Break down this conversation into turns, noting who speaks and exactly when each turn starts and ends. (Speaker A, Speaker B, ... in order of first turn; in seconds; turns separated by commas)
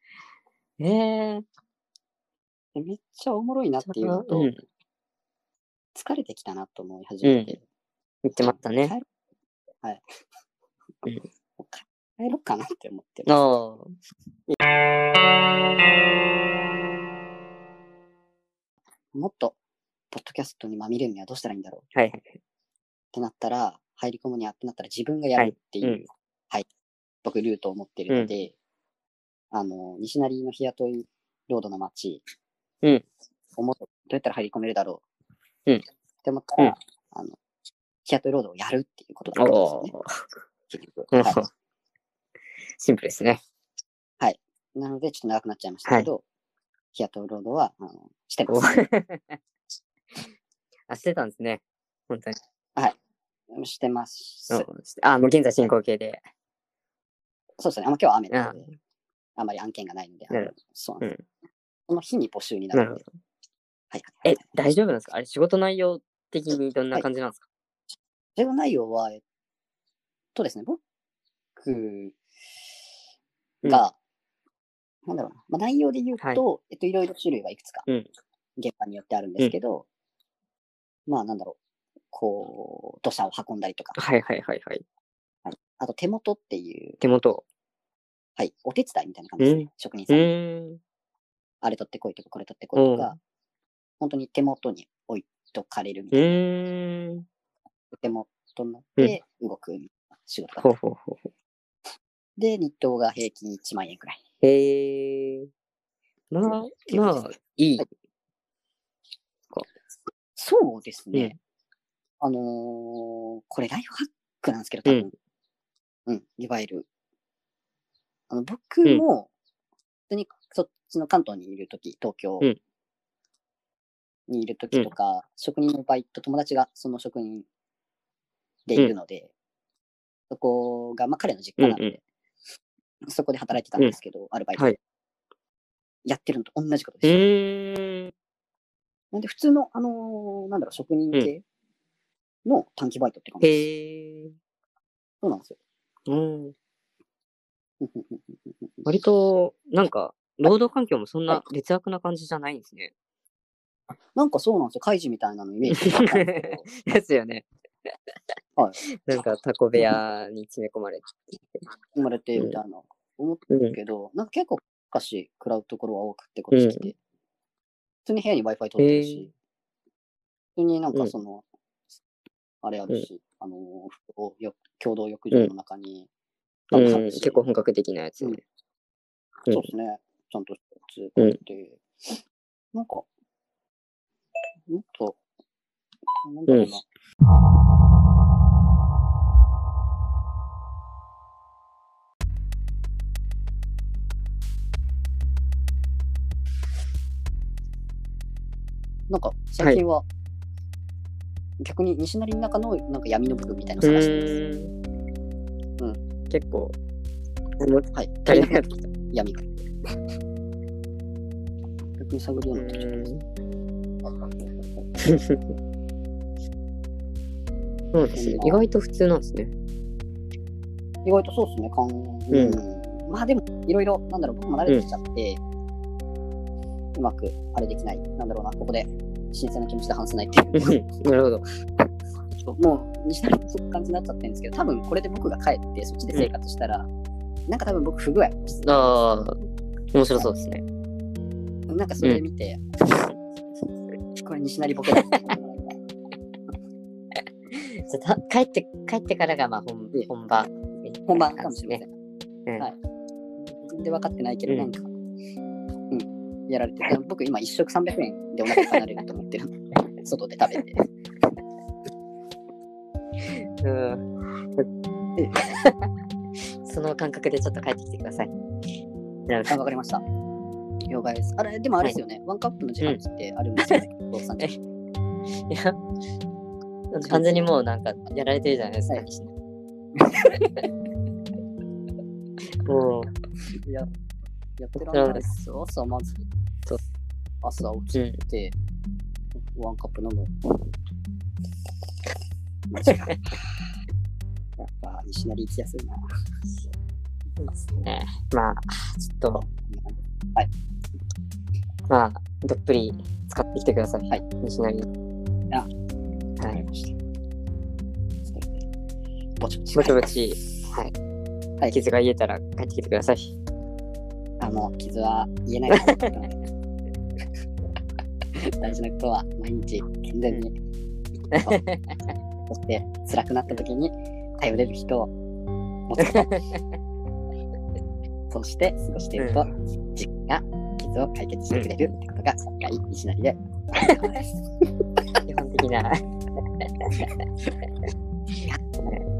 Speaker A: 0.8-1.4, Speaker B: 2.7-4.5, Speaker A: 3.9-4.6, Speaker B: 5.9-7.6, Speaker A: 7.2-7.5, Speaker A: 8.2-8.9, Speaker B: 8.4-9.0, Speaker B: 11.6-13.4, Speaker A: 13.3-13.9, Speaker B: 19.1-19.6, Speaker B: 20.1-21.9, Speaker A: 21.9-22.4, Speaker B: 23.1-26.6, Speaker A: 25.4-26.0, Speaker B: 27.2-28.5, Speaker A: 28.1-28.4, Speaker B: 29.5-32.2, Speaker B: 33.6-35.0, Speaker B: 36.2-37.4, Speaker B: 38.0-39.9, Speaker A: 39.4-40.1, Speaker B: 40.7-41.4, Speaker A: 41.1-41.5, Speaker A: 42.8-43.4, Speaker B: 44.2-46.2, Speaker B: 46.9-48.8, Speaker A: 48.5-49.4, Speaker A: 50.9-52.4, Speaker B: 53.5-54.7, Speaker A: 54.5-56.2, Speaker B: 57.6-58.7, Speaker A: 58.3-58.6, Speaker B: 59.4-61.1, Speaker A: 60.3-61.2, Speaker B: 61.9-63.0, Speaker A: 62.7-63.1, Speaker B: 63.9-64.5, Speaker A: 64.2-67.4, Speaker B: 68.4-69.2, Speaker B: 70.3-70.8, Speaker B: 71.6-72.2, Speaker B: 73.6-73.9, Speaker B: 75.0-77.8, Speaker B: 78.6-79.9, Speaker B: 81.1-81.6, Speaker B: 82.1-84.0, Speaker A: 84.0-84.8, Speaker B: 85.5-87.0, Speaker A: 87.0-87.4, Speaker B: 88.4-90.3, Speaker A: 89.4-90.8, Speaker B: 91.6-93.2, Speaker A: 92.7-93.1, Speaker B: 94.0-96.4, Speaker A: 96.1-97.2, Speaker B: 97.9-100.7, Speaker A: 100.6-101.3, Speaker B: 102.4-104.2, Speaker A: 104.4-105.5, Speaker A: 106.3-107.9, Speaker B: 106.9-107.9, Speaker B: 110.3-111.4, Speaker B: 112.2-115.1, Speaker B: 116.1-116.9, Speaker B: 118.3-119.3, Speaker B: 120.1-122.5, Speaker B: 124.3-127.5, Speaker B: 128.7-129.3, Speaker B: 130.3-132.0, Speaker A: 131.6-131.9, Speaker B: 133.1-134.7, Speaker B: 136.1-137.2, Speaker A: 137.0-138.1, Speaker B: 139.1-141.4, Speaker B: 142.4-143.6, Speaker A: 143.4-144.3, Speaker B: 145.2-145.6, Speaker A: 146.1-146.5, Speaker B: 147.8-148.9, Speaker A: 148.8-152.9, Speaker B: 154.1-156.7, Speaker A: 155.7-157.4, Speaker B: 158.6-159.2, Speaker A: 159.0-161.2, Speaker B: 161.9-166.9, Speaker A: 163.5-163.8, Speaker A: 166.5-166.9, Speaker B: 168.1-169.3, Speaker A: 168.8-169.3, Speaker B: 170.6-171.4, Speaker B: 172.6-176.1, Speaker B: 176.7-177.5, Speaker A: 176.7-178.4, Speaker B: 179.5-182.1, Speaker B: 182.7-183.1, Speaker B: 184.7-185.2, Speaker B: 186.2-186.8, Speaker A: 186.5-186.7, Speaker B: 199.1-200.0, Speaker B: 201.6-204.4, Speaker A: 203.8-204.7, Speaker A: 206.3-206.7, Speaker A: 207.6-208.9, Speaker B: 207.9-209.6, Speaker B: 212.0-213.1, Speaker A: 212.5-213.2, Speaker A: 215.0-215.4, Speaker A: 217.9-219.5, Speaker B: 218.1-218.7, Speaker B: 221.0-225.4, Speaker A: 222.3-222.6, Speaker B: 226.9-230.8, Speaker A: 230.5-231.4, Speaker B: 232.3-236.9, Speaker B: 237.5-239.2, Speaker A: 238.6-239.3, Speaker A: 239.9-240.6, Speaker B: 241.7-242.6, Speaker A: 242.9-243.1, Speaker B: 244.1-245.8, Speaker A: 247.6-251.8, Speaker B: 251.1-251.9, Speaker B: 253.5-254.9, Speaker B: 255.9-260.8, Speaker A: 258.5-258.8, Speaker A: 263.3-264.0, Speaker B: 265.2-265.6, Speaker A: 265.6-265.9, Speaker A: 266.6-268.3, Speaker A: 269.3-269.5, Speaker B: 269.5-270.0, Speaker B: 270.9-274.6, Speaker A: 275.5-275.8, Speaker A: 276.9-279.3, Speaker B: 277.1-277.5, Speaker A: 282.6-283.1, Speaker B: 283.6-283.9, Speaker B: 284.6-286.2, Speaker A: 284.8-285.3, Speaker B: 287.4-288.5, Speaker A: 287.9-288.2, Speaker B: 289.5-290.6, Speaker B: 292.7-293.5, Speaker A: 292.9-293.1, Speaker B: 294.6-296.0, Speaker A: 297.4-299.4, Speaker B: 299.6-300.5, Speaker A: 301.9-304.9, Speaker B: 306.4-306.9, Speaker B: 308.2-308.6, Speaker B: 309.4-310.1, Speaker A: 309.7-310.9, Speaker A: 311.7-313.3, Speaker B: 314.4-316.4, Speaker B: 318.4-320.5, Speaker B: 321.3-321.6, Speaker A: 321.4-322.0, Speaker B: 322.5-325.1, Speaker B: 325.9-326.4, Speaker A: 326.0-326.6, Speaker B: 328.3-334.1, Speaker A: 329.2-329.4, Speaker A: 333.8-334.1, Speaker A: 335.2-336.0, Speaker A: 336.6-336.9, Speaker A: 338.4-339.1